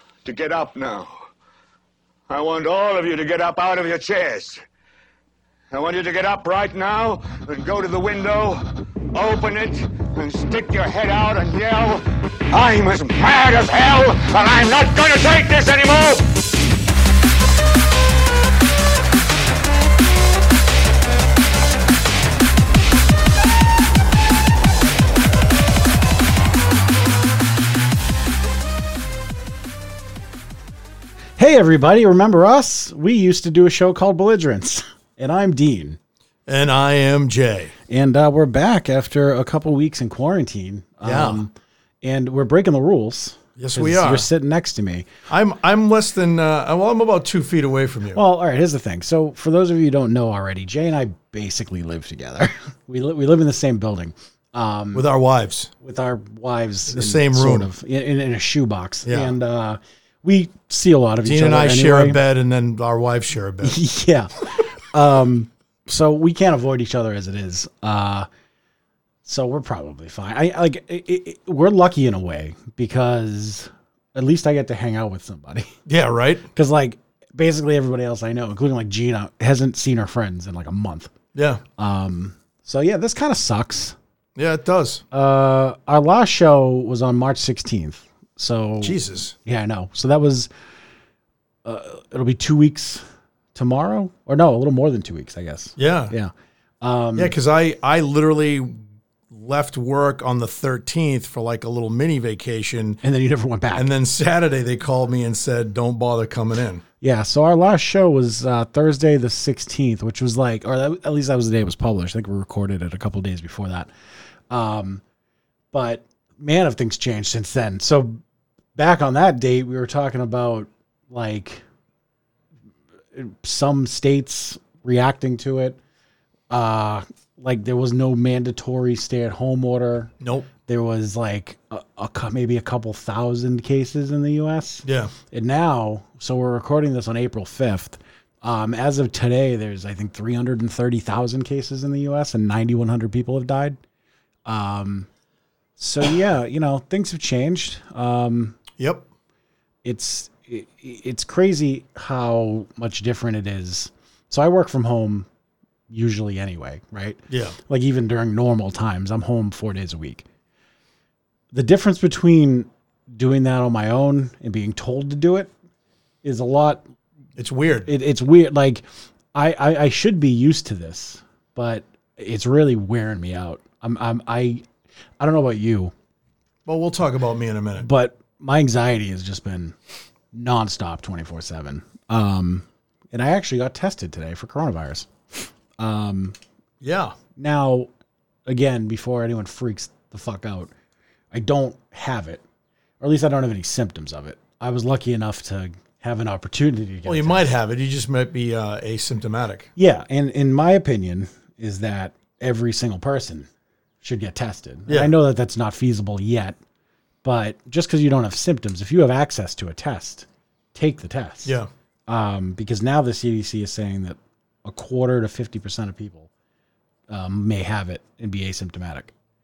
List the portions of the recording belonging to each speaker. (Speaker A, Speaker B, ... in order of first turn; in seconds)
Speaker A: 0.2-1.1, 2.3-4.6, 5.7-8.6, 9.1-16.3
Speaker B: 31.4-36.0, 37.9-45.1, 48.1-55.1, 55.8-62.2, 63.6-68.3, 69.2-75.7, 76.5-81.1, 81.8-84.0, 85.1-90.5, 91.7-93.0, 93.5-97.3, 103.0-103.9, 107.0-113.9, 114.5-115.0, 115.7-118.2, 118.8-121.6, 123.2-125.8, 126.5-130.1, 130.7-143.8, 144.5-145.1, 145.8-148.6, 149.8-155.3, 155.9-160.2, 161.5-165.5, 166.2-166.8, 167.9-168.8, 169.3-174.6, 175.2-175.9, 177.8-179.8, 180.3-186.4, 187.4-187.9, 188.5-190.7, 191.3-192.4, 193.0-197.5, 199.8-203.5, 204.0-206.6, 207.2-211.6, 212.1-216.3, 217.1-219.1
Speaker C: 36.5-37.7, 41.0-41.5, 43.6-44.3, 45.3-48.2, 54.9-55.7, 56.9-57.7, 59.0-59.3, 61.2-63.8, 75.9-76.5, 81.3-81.6, 84.4-85.0, 88.8-89.3, 95.8-96.1, 97.2-103.0, 103.7-106.8, 130.2-130.5, 134.8-135.1, 148.8-149.1, 157.3-157.6, 167.4-167.9, 176.7-177.9, 186.8-187.2, 197.1-199.7, 204.9-205.1